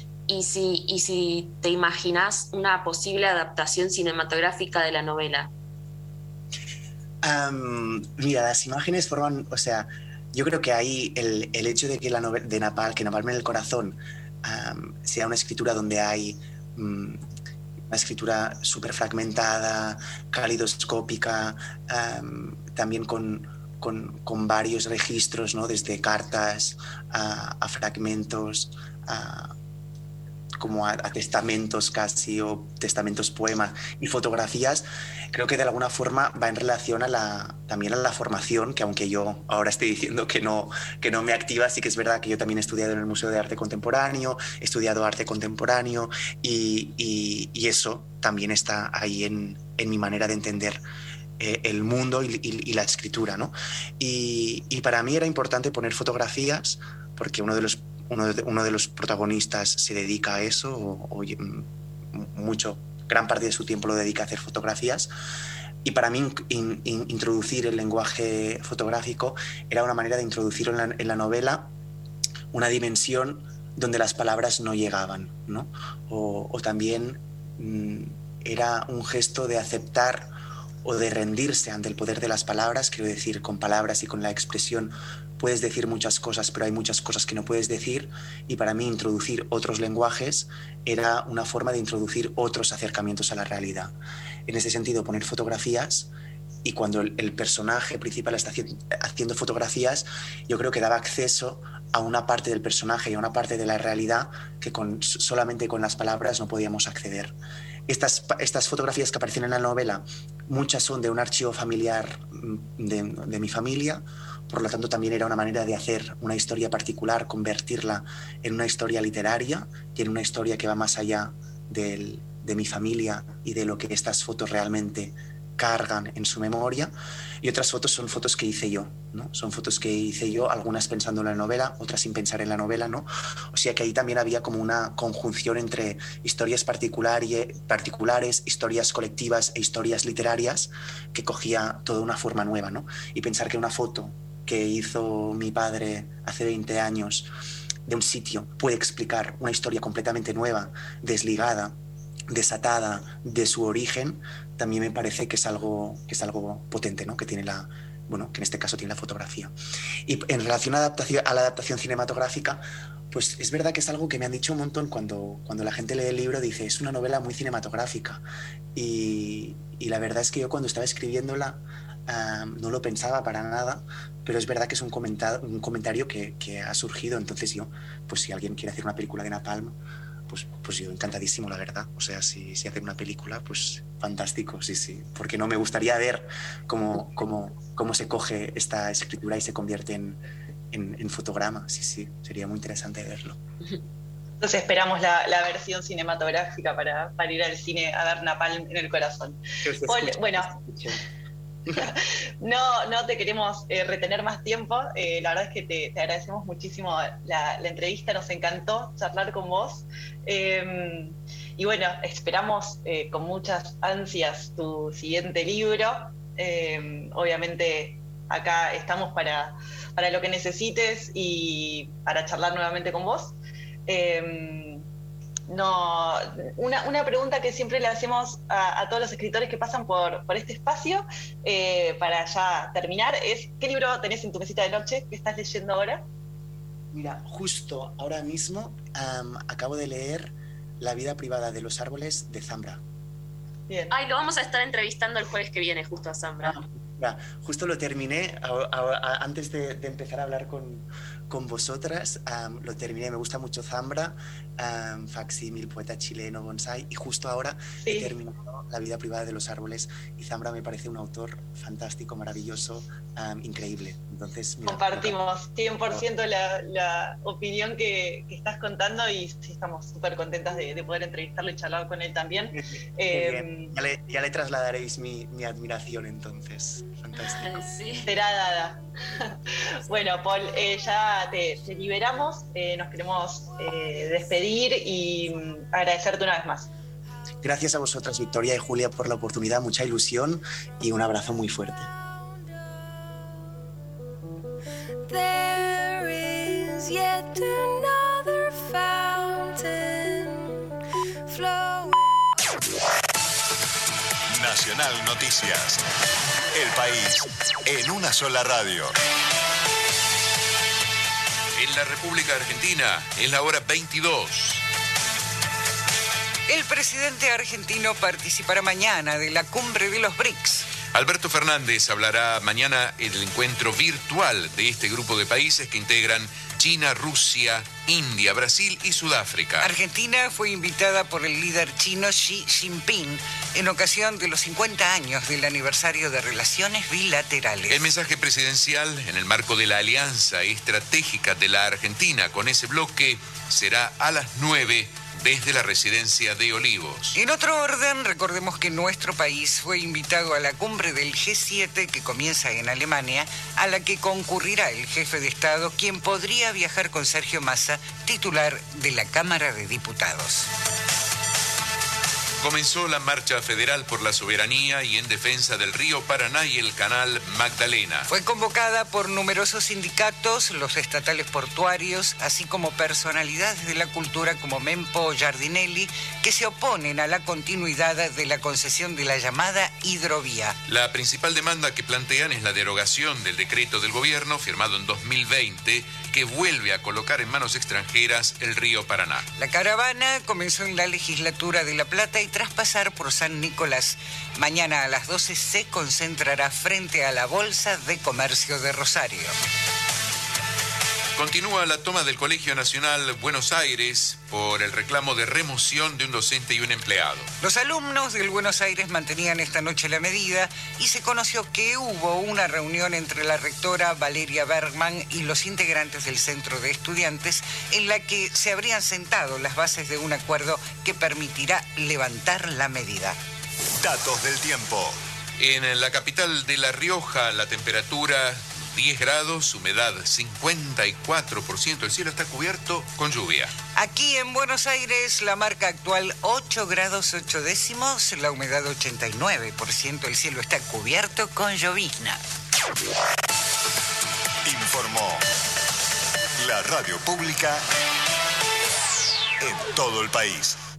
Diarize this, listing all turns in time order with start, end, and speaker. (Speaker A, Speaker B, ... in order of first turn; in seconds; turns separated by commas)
Speaker A: 0.3-5.5, Speaker B: 7.2-17.2, Speaker B: 17.9-29.5, Speaker B: 30.6-50.8, Speaker B: 51.4-65.1, Speaker B: 65.8-71.7, Speaker B: 72.5-80.3, Speaker B: 80.8-94.0, Speaker B: 94.5-96.1, Speaker B: 96.6-107.3, Speaker B: 107.9-147.3, Speaker B: 147.9-151.8, Speaker B: 152.3-159.5, Speaker B: 160.1-168.2, Speaker B: 168.8-179.8, Speaker B: 180.3-190.2, Speaker B: 190.7-193.4, Speaker C: 194.4-200.5, Speaker B: 199.7-201.0, Speaker C: 201.8-223.3, Speaker C: 223.9-224.8, Speaker C: 225.5-236.0, Speaker B: 236.9-242.8, Speaker C: 243.7-243.9, Speaker A: 243.9-246.6, Speaker B: 246.4-265.2, Speaker C: 257.8-258.1, Speaker C: 264.6-273.7, Speaker B: 272.6-277.7, Speaker A: 277.2-278.1, Speaker C: 278.0-279.3, Speaker C: 279.9-286.7, Speaker B: 287.4-291.9, Speaker D: 292.5-292.9, Speaker D: 295.0-300.7, Speaker D: 301.3-302.4, Speaker E: 304.3-305.8, Speaker E: 306.5-308.9, Speaker F: 311.6-314.6, Speaker G: 316.5-320.7, Speaker F: 320.9-329.7, Speaker G: 329.6-337.9, Speaker F: 337.7-347.2, Speaker G: 347.1-360.5, Speaker F: 362.4-368.1, Speaker G: 368.1-380.6, Speaker F: 380.7-389.2, Speaker G: 389.4-399.3, Speaker F: 401.2-407.2, Speaker G: 407.4-423.2, Speaker E: 423.8-425.0, Speaker F: 425.4-433.5, Speaker G: 433.8-442.2, Speaker E: 444.4-445.2, Speaker E: 446.4-447.6, Speaker E: 449.4-450.6